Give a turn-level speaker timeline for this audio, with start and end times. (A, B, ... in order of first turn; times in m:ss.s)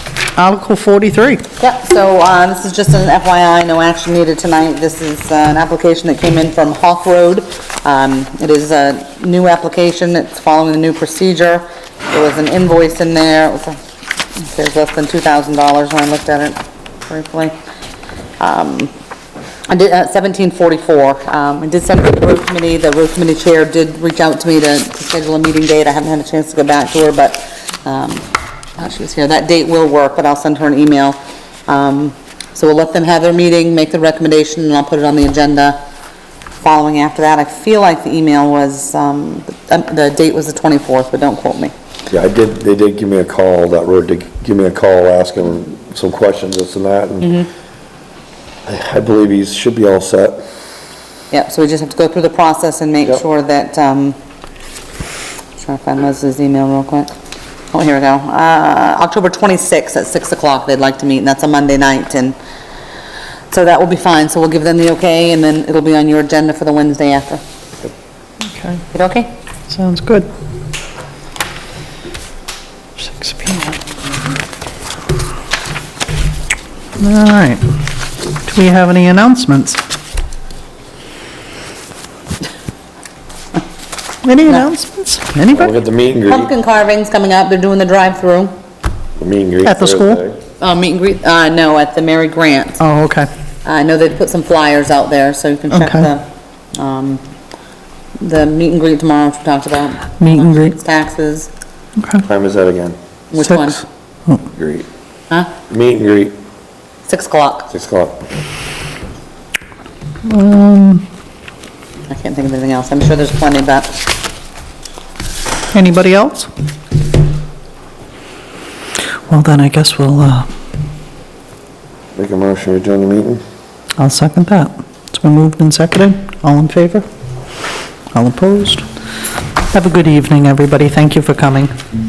0:00.4-0:01.4 A
0:01.6-0:13.8 B
0:14.4-0:17.5 B
0:18.4-0:18.9 B
0:19.7-0:28.2 B
0:28.8-0:35.8 B
0:36.6-0:41.7 B
0:42.1-0:47.3 C
0:47.2-0:47.5 B
0:48.7-0:50.4 C
0:51.3-0:54.2 B
0:55.6-0:57.1 B
0:57.7-1:02.4 B
1:03.5-1:07.4 B
1:08.5-1:08.8 A
1:08.9-1:09.3 B
1:09.7-1:10.3 A
1:13.0-1:13.8 A
1:17.0-1:17.6 A
1:18.4-1:19.8 A
1:24.2-1:25.7 A
1:25.5-1:26.5 C
1:26.3-1:28.5 B
1:29.2-1:30.4 C
1:29.6-1:30.2 A
1:30.6-1:32.8 B
1:32.8-1:33.3 A
1:33.6-1:37.2 B
1:35.7-1:36.1 A
1:38.2-1:41.5 B
1:40.2-1:40.8 A
1:42.0-1:42.2 A
1:42.2-1:43.0 C
1:43.3-1:43.8 B
1:43.4-1:44.5 A
1:44.6-1:44.9 C
1:45.7-1:46.3 C
1:47.1-1:47.7 B
1:47.7-1:48.2 C
1:50.2-1:51.0 A
1:52.1-1:54.0 B
1:55.7-1:56.5 A
1:59.3-2:00.5 A
2:02.2-2:03.4 C
2:04.0-2:07.1 A
2:08.1-2:08.9 A
2:09.7-2:11.8 A